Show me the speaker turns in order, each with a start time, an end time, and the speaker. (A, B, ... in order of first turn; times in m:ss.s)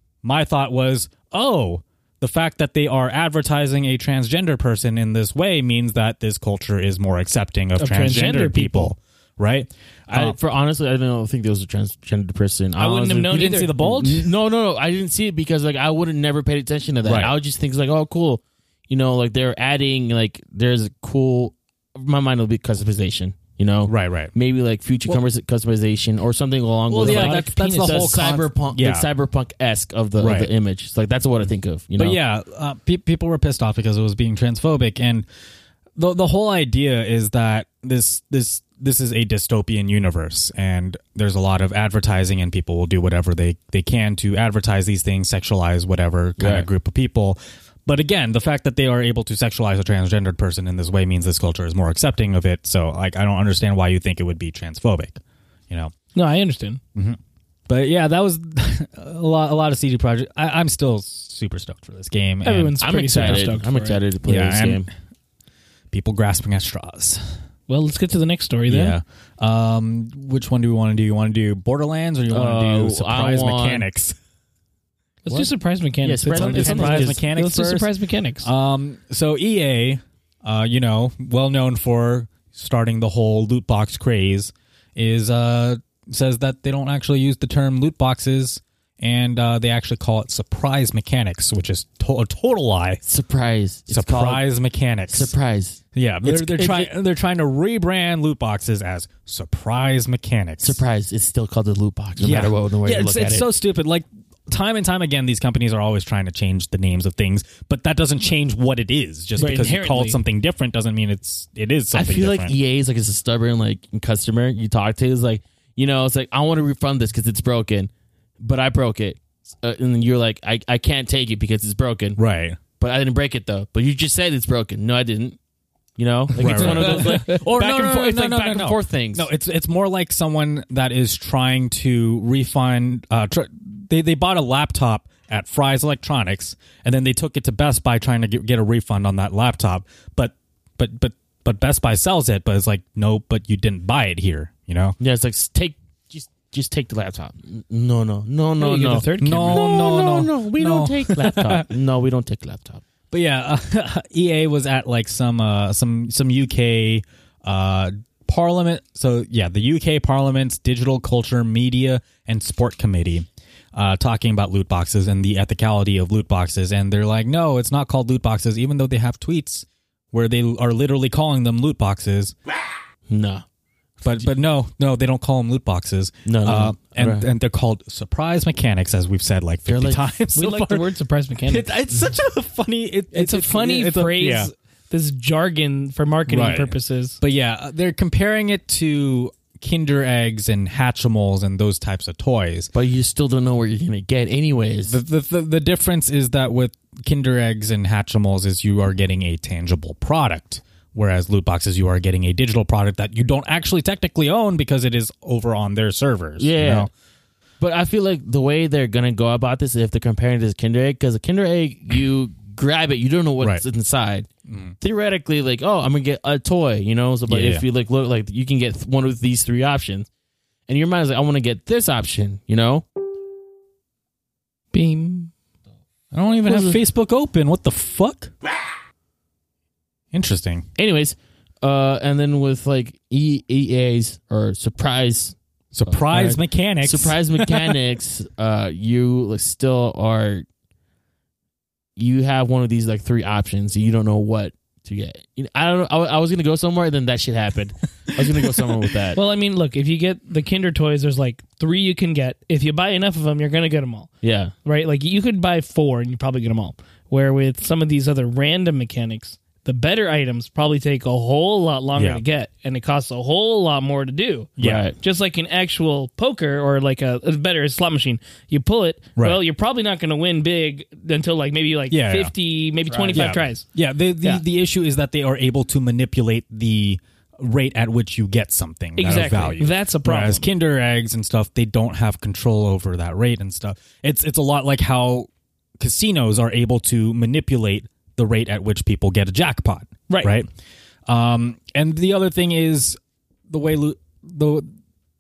0:00.2-0:10.4 A
0:07.8-0:09.0 B
0:10.1-0:32.2 C
0:12.8-0:13.7 B
0:13.3-0:14.3 A
0:17.0-0:17.3 A
0:23.9-0:24.3 A
0:26.9-0:29.1 A
0:27.0-0:28.3 B
0:30.2-0:30.5 A
0:32.0-0:35.3 A
0:36.0-0:55.2 A
0:46.4-0:46.7 C
0:56.1-0:56.8 B
0:57.0-1:03.4 A
1:02.4-1:04.0 B
1:02.8-1:04.9 C
1:04.2-1:04.9 A
1:05.9-1:07.2 A
1:07.7-1:09.0 B
1:08.7-1:14.2 A
1:12.3-1:13.8 C
1:15.2-1:18.5 B
1:16.0-1:17.2 C
1:16.3-1:17.9 A
1:18.4-1:33.0 A
1:33.0-1:34.4 C
1:33.9-1:35.3 A
1:35.1-1:36.9 C
1:36.0-1:40.8 A
1:40.6-1:43.5 C
1:42.2-1:52.5 A
1:49.4-1:50.2 B
1:51.9-2:02.2 C
2:02.2-2:02.6 A
2:02.8-2:05.4 C
2:06.0-2:09.3 C
2:06.4-2:25.0 A
2:06.6-2:07.2 B
2:25.0-2:32.8 C
2:28.6-2:29.8 B
2:29.2-2:31.7 A
2:33.1-2:52.3 A
2:53.1-2:53.4 C
2:54.0-3:00.8 A
2:56.2-2:57.3 C
2:59.7-3:00.0 C
3:00.3-3:01.8 B
3:01.5-3:04.5 A
3:03.1-3:07.2 B
3:06.3-3:12.7 A
3:12.7-3:15.0 C
3:14.9-3:26.9 A
3:26.4-3:26.9 C
3:27.6-3:34.3 C
3:34.5-3:34.8 A
3:34.8-3:40.1 C
3:37.3-3:37.6 A
3:40.7-3:42.8 C
3:44.7-3:45.3 B
3:46.1-3:48.3 A
3:46.4-3:46.8 C
3:50.1-3:50.7 A
3:50.8-4:00.5 C
3:55.7-3:57.8 A
4:02.0-4:09.2 C
4:09.2-4:14.1 B
4:14.2-4:14.5 C
4:14.6-4:33.7 B
4:22.0-4:22.2 A
4:24.6-4:24.8 A
4:24.6-4:25.0 C
4:31.9-4:32.3 A
4:32.9-4:33.2 C
4:33.1-4:50.5 A
4:39.0-4:40.5 B
4:50.1-4:50.4 B
4:51.1-4:53.0 A
4:53.5-4:54.7 A